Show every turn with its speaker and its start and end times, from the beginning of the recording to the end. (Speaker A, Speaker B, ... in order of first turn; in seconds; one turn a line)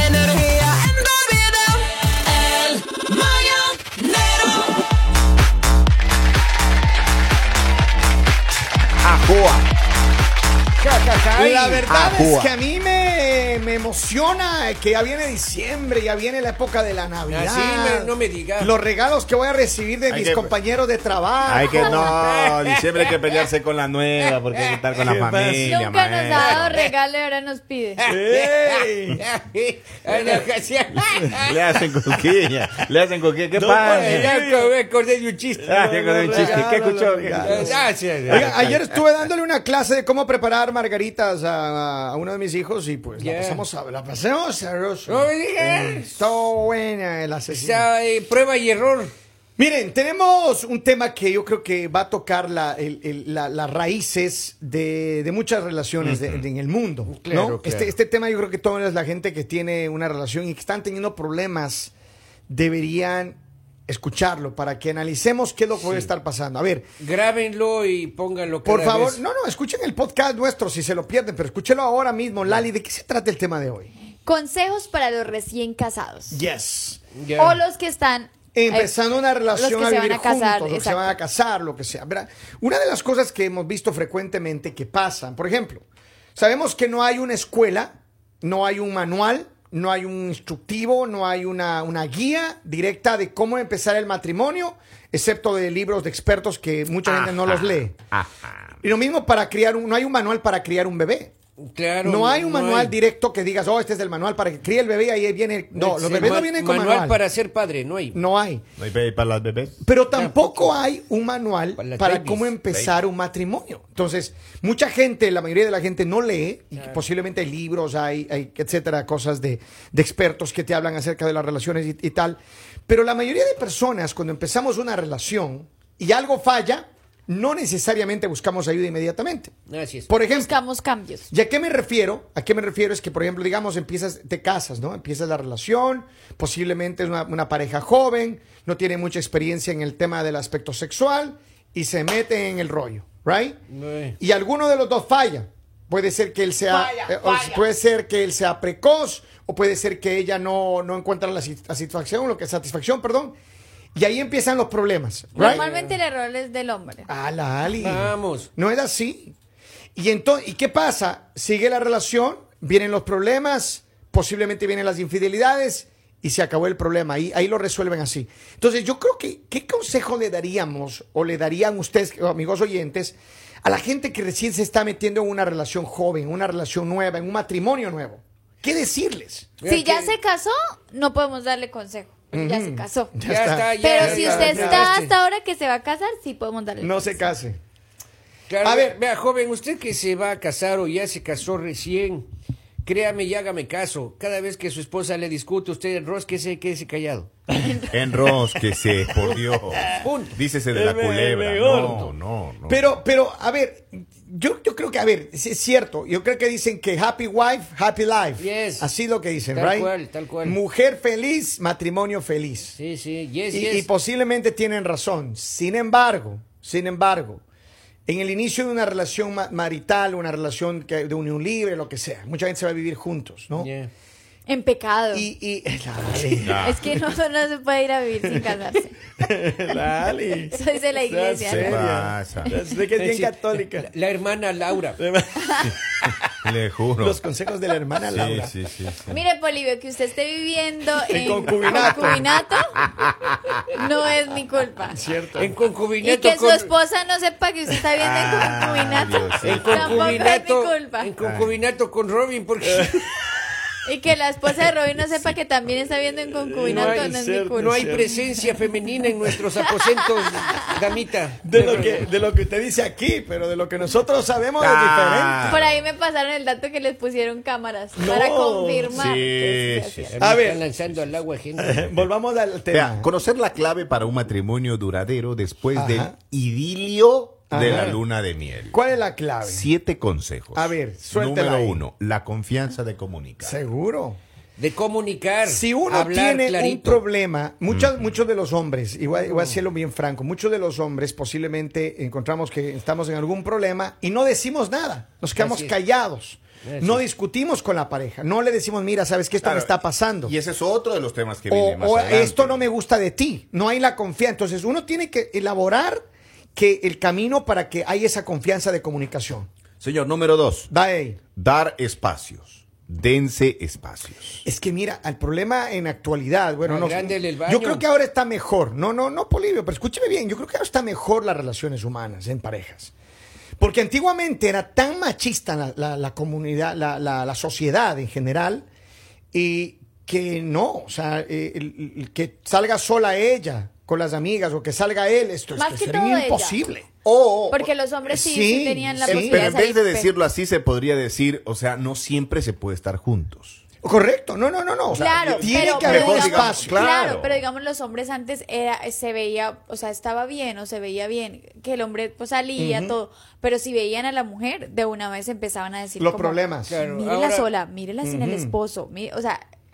Speaker A: 9.0-9.7
Speaker B: 10.8-22.2
Speaker A: 10.8-12.5
Speaker C: 17.3-18.7
Speaker A: 20.1-20.5
Speaker A: 21.5-26.7
Speaker C: 21.9-23.4
Speaker C: 24.2-25.0
Speaker B: 25.0-25.8
Speaker D: 25.6-28.0
Speaker C: 26.4-26.9
Speaker C: 28.0-31.9
Speaker B: 28.1-29.2
Speaker A: 31.3-34.3
Speaker B: 33.5-34.7
Speaker C: 33.8-36.8
Speaker A: 35.6-39.0
Speaker B: 36.2-47.9
Speaker C: 37.4-38.5
Speaker C: 43.2-43.6
Speaker C: 45.0-46.3
Speaker C: 47.5-49.1
Speaker B: 49.6-61.9
Speaker A: 56.0-56.4
Speaker C: 57.1-57.9
Speaker B: 62.5-66.8
Speaker C: 65.8-66.1
Speaker C: 67.0-69.2
Speaker B: 68.6-73.9
Speaker D: 74.2-76.4
Speaker B: 76.3-77.0
Speaker C: 77.2-77.6
Speaker D: 77.4-79.0
Speaker B: 78.5-85.8
Speaker D: 79.5-81.2
Speaker B: 86.3-98.0
Speaker A: 97.0-98.7
Speaker B: 98.8-101.3
Speaker C: 101.6-103.0
Speaker B: 102.0-107.2
Speaker C: 105.7-108.2
Speaker B: 108.1-108.6
Speaker A: 108.8-109.8
Speaker B: 109.8-129.5
Speaker C: 110.1-110.8
Speaker C: 111.8-112.5
Speaker C: 116.8-117.0
Speaker C: 129.7-130.1
Speaker B: 130.1-130.5
Speaker D: 130.2-131.3
Speaker B: 131.3-143.6
Speaker C: 143.7-144.2
Speaker B: 144.2-153.3
Speaker D: 146.7-147.6
Speaker B: 153.9-155.6
Speaker C: 155.3-156.0
Speaker D: 155.3-157.1
Speaker B: 157.1-159.3
Speaker C: 157.8-158.5
Speaker B: 159.9-179.5
Speaker C: 179.6-180.1
Speaker D: 179.6-183.1
Speaker B: 182.3-184.9
Speaker C: 183.2-185.1
Speaker D: 183.8-187.3
Speaker B: 186.8-187.6
Speaker C: 188.5-192.3
Speaker B: 188.6-189.0
Speaker C: 192.8-197.3
Speaker B: 197.5-197.8
Speaker A: 197.9-202.9
Speaker B: 199.1-200.0
Speaker C: 199.8-200.4
Speaker B: 200.7-202.0
Speaker C: 201.6-202.1
Speaker B: 202.7-212.8
Speaker C: 208.4-208.9
Speaker C: 209.5-210.6
Speaker C: 212.7-213.9
Speaker B: 213.5-217.4
Speaker B: 218.1-223.7
Speaker C: 223.5-223.9
Speaker D: 224.5-225.3
Speaker B: 225.1-226.6
Speaker A: 226.4-226.8
Speaker D: 226.6-228.9
Speaker B: 228.2-228.6
Speaker B: 229.2-233.9
Speaker D: 230.5-231.8
Speaker A: 231.4-232.5
Speaker C: 232.9-235.0
Speaker B: 235.0-236.2
Speaker A: 236.3-237.2
Speaker B: 237.0-238.5
Speaker A: 238.1-239.2
Speaker D: 239.1-242.8
Speaker B: 241.1-242.3
Speaker D: 243.7-245.0
Speaker B: 244.9-245.6
Speaker C: 245.3-246.7
Speaker D: 246.0-251.1
Speaker A: 248.0-250.3
Speaker C: 249.4-253.1
Speaker A: 251.2-251.5
Speaker B: 252.6-253.0
Speaker D: 253.8-258.2
Speaker B: 256.3-258.1
Speaker C: 256.6-262.1
Speaker D: 259.6-260.7
Speaker B: 261.4-265.5
Speaker A: 264.6-265.8
Speaker D: 265.4-270.1
Speaker B: 267.9-269.0
Speaker A: 268.9-270.1
Speaker C: 270.1-271.9
Speaker B: 270.2-270.6
Speaker B: 271.6-273.1
Speaker A: 272.7-278.7
Speaker B: 275.7-276.1
Speaker B: 277.5-277.9
Speaker C: 277.6-278.0
Speaker B: 278.7-279.6
Speaker A: 279.4-283.6
Speaker B: 280.5-281.8
Speaker B: 283.4-284.2
Speaker C: 284.6-287.0
Speaker B: 285.5-300.3
Speaker A: 287.7-288.0
Speaker C: 289.1-289.6
Speaker C: 295.3-295.8
Speaker C: 296.6-297.0
Speaker A: 299.4-302.6
Speaker B: 301.5-306.0
Speaker B: 306.5-309.5
Speaker A: 309.8-310.7
Speaker B: 310.7-311.2
Speaker A: 311.4-314.4
Speaker B: 314.4-322.9
Speaker C: 316.6-317.8
Speaker B: 323.6-328.6
Speaker B: 329.3-336.9
Speaker D: 335.5-336.6
Speaker A: 337.0-337.6
Speaker D: 337.5-340.1
Speaker B: 338.0-339.5
Speaker A: 339.0-343.6
Speaker B: 343.8-347.2
Speaker A: 344.9-347.4
Speaker D: 344.9-359.4
Speaker B: 352.6-353.0
Speaker B: 356.0-356.7
Speaker C: 356.7-357.5
Speaker B: 358.0-358.5